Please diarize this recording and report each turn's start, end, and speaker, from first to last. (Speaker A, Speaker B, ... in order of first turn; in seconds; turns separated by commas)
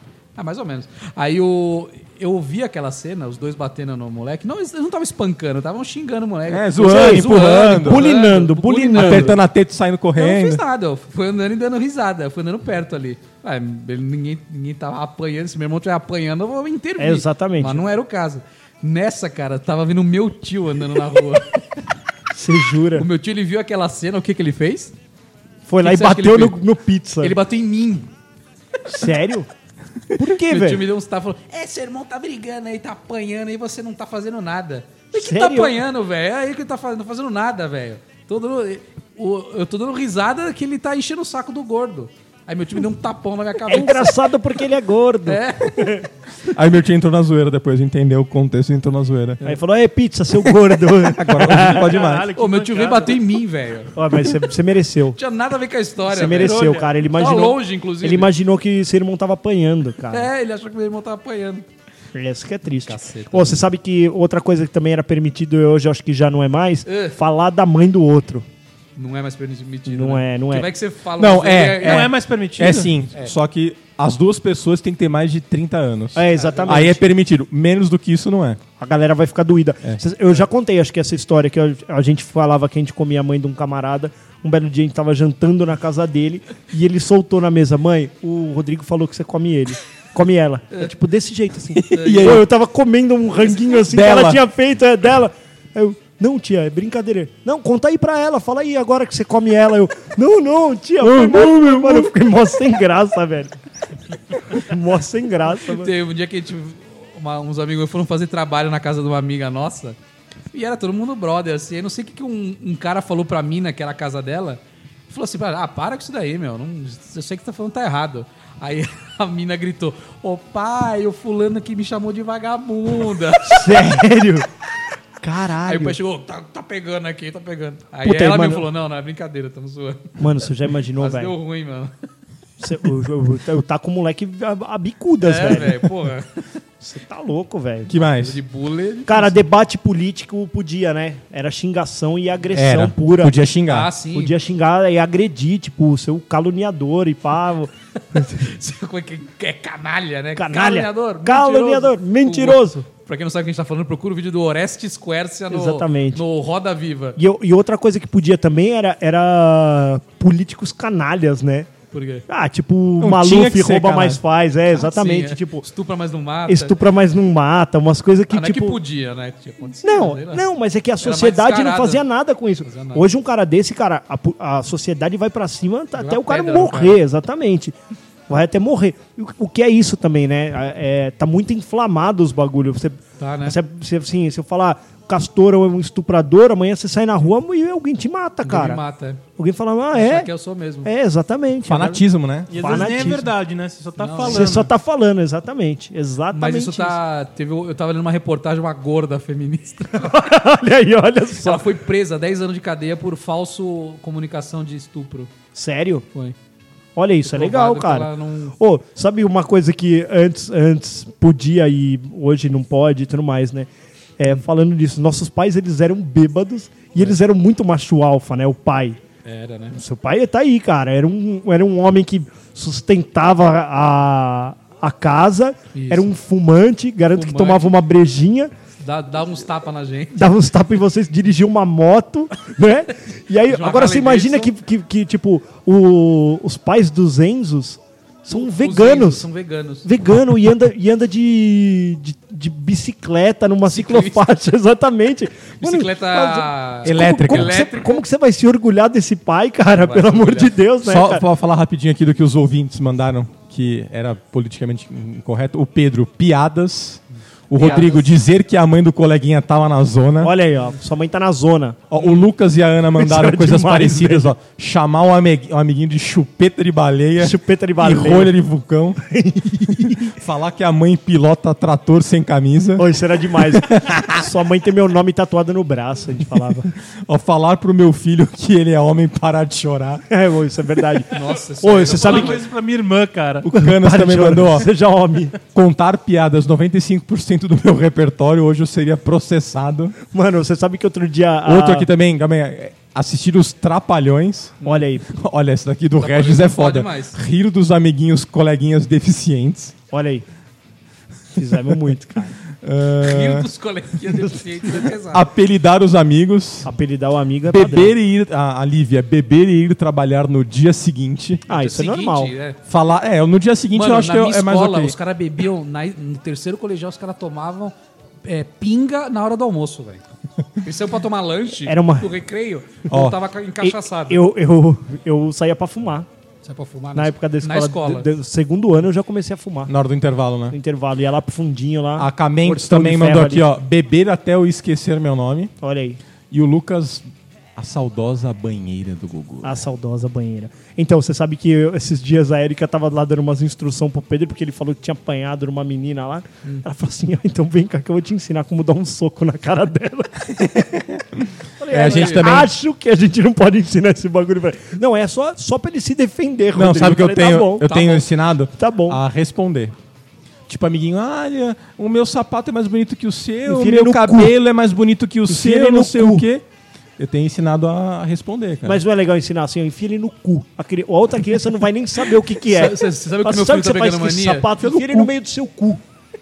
Speaker A: 0.4-9.4, Speaker B: 6.5-8.1, Speaker C: 6.8-9.4, Speaker B: 8.9-10.6, Speaker A: 10.2-21.6, Speaker C: 17.0-17.8, Speaker C: 22.3-23.1, Speaker A: 23.0-24.9, Speaker C: 25.7-27.4, Speaker A: 25.8-26.6, Speaker A: 27.2-28.1, Speaker C: 28.9-29.5, Speaker C: 30.2-30.9, Speaker A: 30.5-44.1, Speaker C: 35.1-35.8, Speaker C: 43.7-46.0, Speaker A: 45.3-46.0, Speaker B: 46.5-49.6, Speaker C: 49.4-51.9, Speaker B: 50.5-52.3, Speaker D: 51.7-53.2, Speaker A: 52.4-53.9, Speaker C: 54.0-55.2, Speaker A: 55.2-58.3, Speaker C: 56.1-60.3, Speaker D: 56.4-56.9, Speaker A: 60.1-61.6, Speaker C: 62.1-68.5, Speaker A: 62.9-63.6, Speaker A: 66.9-67.2, Speaker A: 69.0-72.1, Speaker C: 69.9-70.7, Speaker B: 71.2-78.6, Speaker D: 71.8-73.0, Speaker C: 76.2-77.0, Speaker A: 76.3-76.9, Speaker C: 78.8-103.5, Speaker B: 91.8-92.5, Speaker A: 91.9-92.4, Speaker B: 93.7-94.4, Speaker B: 101.0-102.1, Speaker C: 104.5-105.9, Speaker A: 105.7-110.0, Speaker A: 110.5-123.9, Speaker C: 123.5-124.5, Speaker C: 125.2-126.0, Speaker A: 125.7-130.1, Speaker C: 128.0-128.7, Speaker C: 130.2-131.3, Speaker A: 131.0-131.9, Speaker C: 132.6-135.9, Speaker A: 135.2-136.4, Speaker C: 136.8-138.0, Speaker B: 137.9-138.4, Speaker A: 138.2-139.4, Speaker C: 139.1-143.3, Speaker B: 142.5-143.9, Speaker A: 143.7-144.3, Speaker C: 144.1-148.5, Speaker A: 148.2-157.2, Speaker C: 150.4-152.9, Speaker C: 155.5-156.2, Speaker C: 157.2-161.7, Speaker A: 161.9-162.2, Speaker C: 162.3-165.7, Speaker B: 163.0-164.2, Speaker A: 164.7-166.8, Speaker C: 166.5-168.8, Speaker A: 168.3-170.4, Speaker C: 169.8-177.7, Speaker A: 171.0-172.1, Speaker A: 172.6-173.1, Speaker A: 176.0-177.0, Speaker C: 178.3-188.8, Speaker A: 183.2-183.6, Speaker A: 188.4-189.2, Speaker C: 189.4-190.3, Speaker A: 189.9-190.9, Speaker C: 190.8-193.3, Speaker B: 191.7-193.1, Speaker D: 192.5-194.7, Speaker A: 194.0-194.4, Speaker C: 194.3-197.0, Speaker A: 196.3-200.1, Speaker C: 200.0-201.7, Speaker A: 201.4-205.3, Speaker C: 205.6-206.1, Speaker C: 207.0-219.0, Speaker A: 207.2-208.6, Speaker A: 219.2-219.8, Speaker C: 219.8-228.5, Speaker A: 225.7-226.1, Speaker A: 227.1-227.7, Speaker A: 228.8-230.3, Speaker C: 230.2-239.2, Speaker A: 233.5-234.5, Speaker A: 238.3-239.9, Speaker C: 239.8-251.2, Speaker A: 243.7-244.3, Speaker A: 245.6-248.0, Speaker B: 246.8-247.7, Speaker A: 249.7-250.5, Speaker B: 250.8-260.3, Speaker A: 257.6-258.1, Speaker C: 260.2-261.8, Speaker B: 261.9-269.0, Speaker A: 262.0-262.2, Speaker C: 263.0-264.3, Speaker C: 267.2-268.3, Speaker C: 269.0-270.1, Speaker B: 270.1-274.1, Speaker C: 272.8-276.7, Speaker B: 277.1-280.0, Speaker C: 280.1-282.4, Speaker A: 281.1-282.4, Speaker D: 281.9-283.5, Speaker B: 283.4-284.7, Speaker C: 283.5-285.4, Speaker B: 285.5-290.0, Speaker C: 290.1-291.9, Speaker B: 291.4-299.7, Speaker C: 294.6-295.1, Speaker A: 296.0-297.2, Speaker C: 299.9-300.2, Speaker C: 301.4-302.4, Speaker B: 302.6-303.5, Speaker A: 303.0-305.3, Speaker B: 305.1-306.7, Speaker C: 306.6-307.9, Speaker B: 307.5-311.4, Speaker C: 311.5-312.3, Speaker A: 311.5-312.6, Speaker B: 312.7-315.0, Speaker A: 313.7-317.7, Speaker A: 318.2-320.0, Speaker A: 320.6-324.2, Speaker C: 321.6-322.1, Speaker B: 322.9-323.2, Speaker C: 323.6-326.1, Speaker A: 326.4-328.1, Speaker C: 326.9-329.7, Speaker B: 329.7-330.6, Speaker C: 330.5-333.5, Speaker B: 332.0-335.5, Speaker C: 335.6-336.0, Speaker B: 336.3-339.7, Speaker C: 339.4-350.7, Speaker B: 350.4-352.5, Speaker C: 351.6-359.0, Speaker A: 351.7-352.3, Speaker B: 356.5-359.7, Speaker A: 357.6-358.0, Speaker B: 360.5-366.4, Speaker C: 363.5-364.3, Speaker C: 365.3-366.2, Speaker B: 367.0-368.8, Speaker C: 368.7-375.8, Speaker A: 372.5-374.5, Speaker B: 374.6-375.1